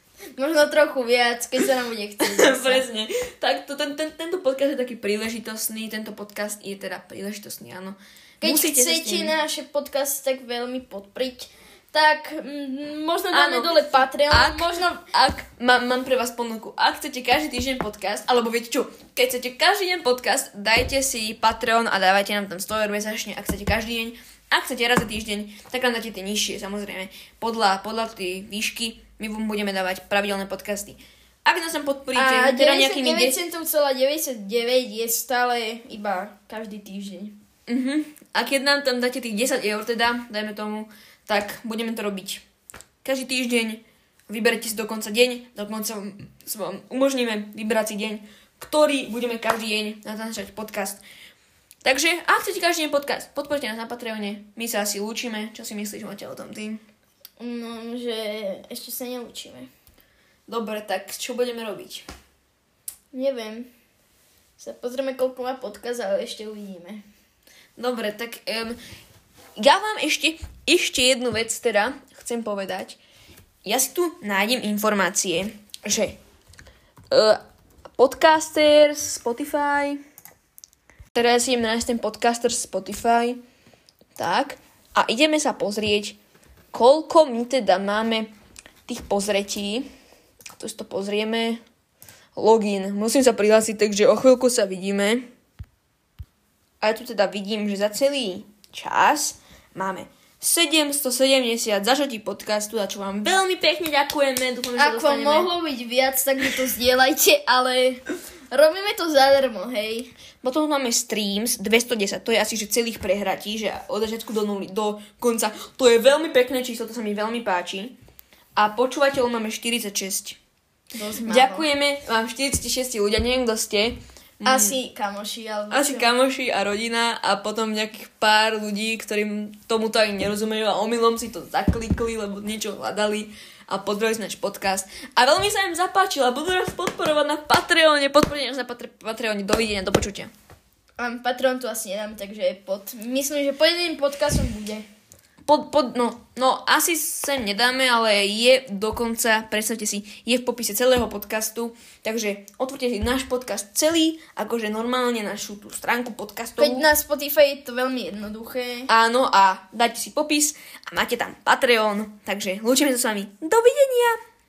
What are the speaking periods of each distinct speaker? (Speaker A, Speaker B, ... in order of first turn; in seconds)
Speaker A: 0.3-2.8, 8.4-15.0, 32.1-37.4, 57.4-59.7, 63.1-63.7, 64.6-67.0, 104.8-110.1, 120.9-121.7, 124.4-126.1, 141.0-144.8, 156.6-158.9
Speaker B: 2.2-9.3, 13.3-33.4, 37.7-42.4, 43.0-51.0, 51.8-56.8, 60.5-62.0, 67.8-68.8, 69.6-73.0, 73.6-76.2, 77.1-77.4, 78.0-80.0, 81.1-83.4, 84.2-86.2, 86.7-88.3, 88.8-89.9, 90.5-91.6, 92.3-95.3, 96.8-105.5, 110.4-117.9, 118.5-120.4, 121.3-124.8, 125.7-140.3, 145.4-156.8, 158.9-164.2